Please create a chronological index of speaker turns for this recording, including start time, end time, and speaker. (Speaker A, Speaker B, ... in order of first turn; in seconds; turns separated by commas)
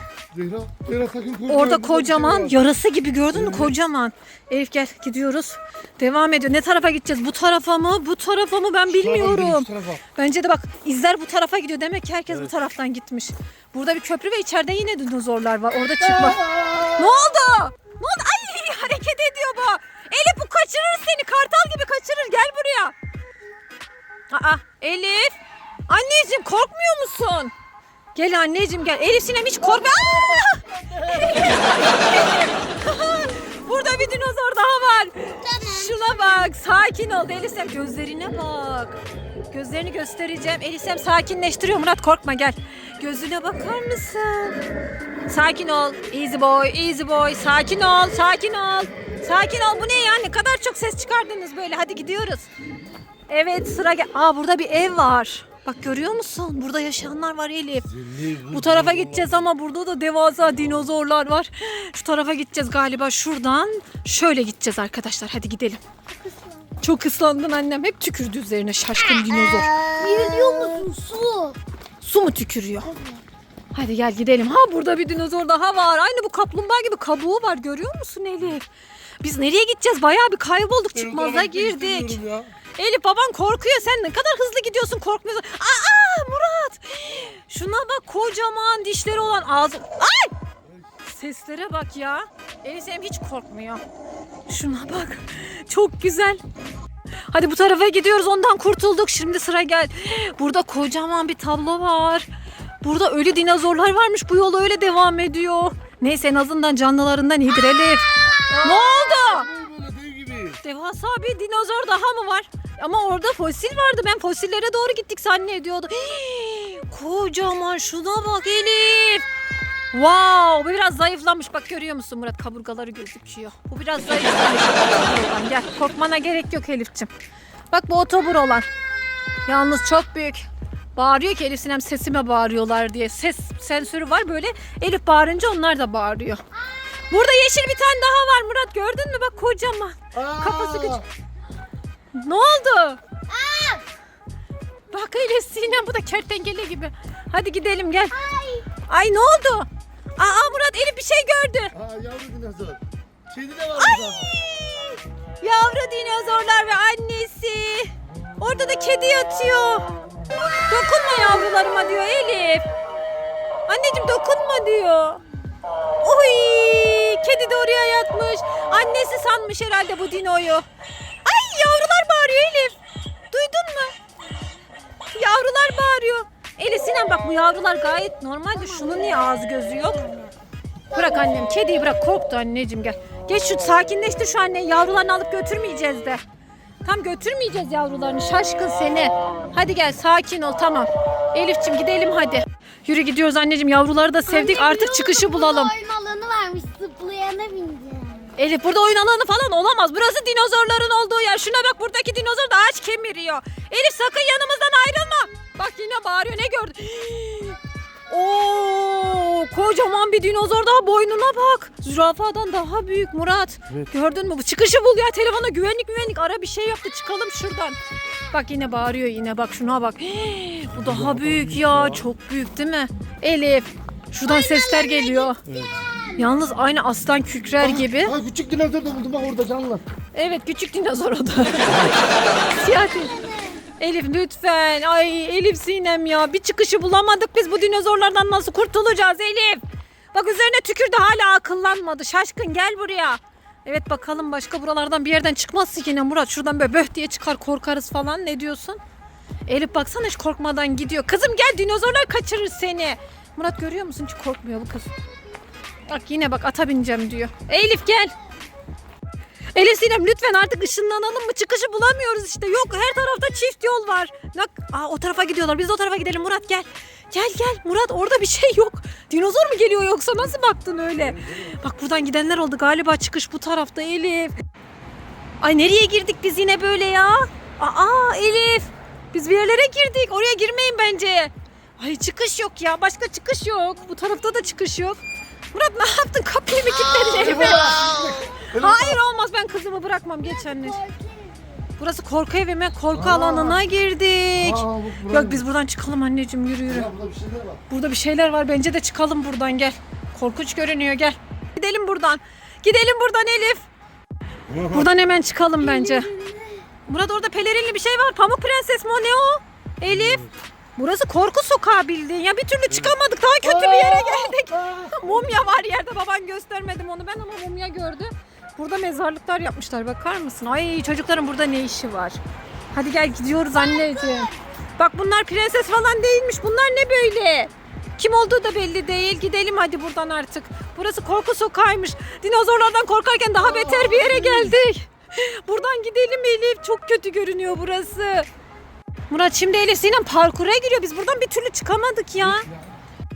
Speaker A: 0.3-2.6, Speaker B: 1.5-22.9, Speaker A: 3.3-3.7, Speaker A: 9.0-10.0, Speaker A: 16.1-16.8, Speaker B: 24.3-25.4, Speaker B: 25.9-27.5, Speaker B: 28.1-39.0, Speaker C: 35.4-36.4, Speaker B: 39.5-44.6, Speaker B: 45.3-52.5, Speaker B: 53.3-65.8, Speaker A: 58.0-59.3, Speaker C: 66.1-66.8, Speaker B: 66.8-69.7, Speaker C: 69.3-71.6, Speaker B: 72.0-72.9, Speaker C: 72.8-73.2, Speaker B: 73.7-78.6, Speaker B: 79.2-82.2, Speaker A: 80.9-82.5, Speaker B: 82.7-90.3, Speaker B: 91.0-93.8, Speaker B: 94.5-96.4, Speaker B: 97.3-102.3, Speaker B: 102.8-109.5, Speaker C: 108.3-108.9, Speaker A: 109.2-110.6, Speaker B: 110.6-119.3, Speaker B: 119.9-127.1, Speaker B: 127.7-128.7, Speaker B: 129.4-136.4, Speaker B: 137.1-141.0, Speaker A: 140.1-141.0, Speaker B: 142.1-143.0, Speaker C: 143.3-143.8, Speaker B: 144.9-148.1, Speaker C: 148.1-148.7, Speaker B: 148.9-151.7, Speaker A: 151.7-154.3, Speaker B: 153.8-159.9, Speaker B: 160.7-162.7, Speaker B: 163.7-165.2, Speaker B: 166.0-170.7, Speaker B: 171.2-172.8, Speaker B: 173.3-173.9, Speaker B: 175.1-180.3, Speaker C: 178.8-179.2, Speaker B: 180.9-186.2, Speaker B: 186.8-195.7, Speaker C: 194.3-198.3, Speaker B: 198.4-217.8, Speaker B: 218.3-225.4, Speaker A: 220.8-222.1, Speaker C: 224.2-226.2, Speaker A: 225.5-225.7, Speaker B: 226.2-228.2, Speaker A: 227.6-229.8, Speaker B: 230.1-233.1, Speaker A: 231.7-231.9, Speaker C: 232.4-233.6, Speaker B: 233.8-239.6, Speaker B: 240.1-248.8, Speaker B: 249.5-254.9, Speaker B: 255.9-258.1, Speaker B: 259.5-274.3, Speaker B: 275.4-285.0, Speaker B: 285.5-287.9, Speaker C: 286.9-288.2, Speaker A: 287.1-289.0, Speaker B: 288.5-290.8, Speaker C: 290.2-291.7, Speaker B: 291.8-296.9, Speaker A: 292.9-293.6, Speaker A: 294.4-295.4, Speaker A: 296.7-297.6, Speaker B: 297.7-303.6, Speaker A: 304.5-304.8, Speaker B: 304.6-306.1, Speaker C: 305.6-306.6, Speaker B: 306.9-322.2, Speaker A: 309.9-310.2, Speaker A: 312.7-315.1, Speaker B: 322.7-338.3, Speaker C: 323.5-324.4, Speaker A: 333.4-334.6, Speaker B: 339.1-342.5, Speaker A: 342.2-342.6